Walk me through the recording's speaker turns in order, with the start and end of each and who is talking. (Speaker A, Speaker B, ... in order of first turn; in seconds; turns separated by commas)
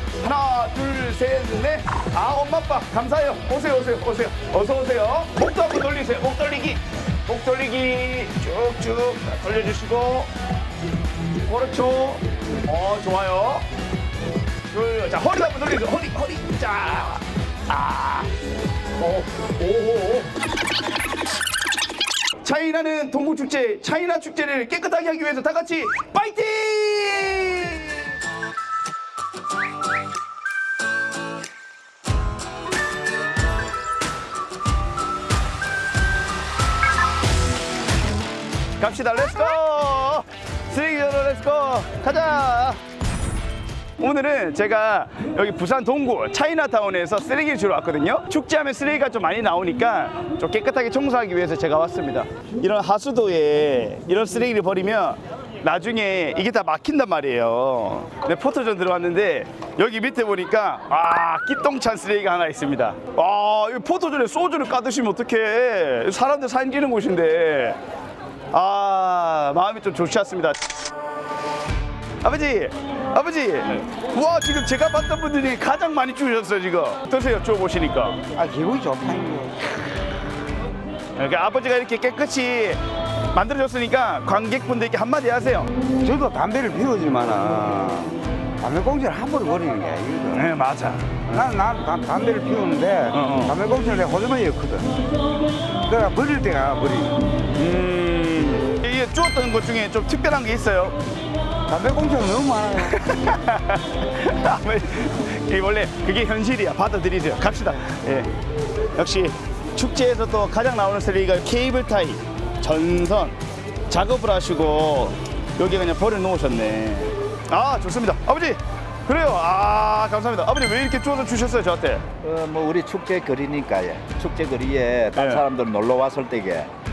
Speaker A: 0.2-10.3, Speaker A: 11.4-13.7, Speaker A: 14.7-18.3, Speaker A: 19.0-20.3, Speaker A: 22.4-28.1, Speaker A: 38.8-42.8, Speaker A: 44.0-67.8, Speaker A: 68.5-70.6, Speaker A: 72.2-78.2, Speaker B: 78.3-79.8, Speaker A: 81.1-82.8, Speaker A: 83.3-85.7, Speaker B: 86.0-90.5, Speaker A: 90.3-91.3, Speaker B: 91.3-95.1, Speaker A: 93.1-93.6, Speaker B: 95.7-97.2, Speaker A: 97.5-101.0, Speaker B: 101.7-103.1, Speaker A: 102.9-108.3, Speaker A: 108.9-113.4, Speaker A: 113.9-122.0, Speaker C: 122.2-126.7, Speaker A: 125.1-125.4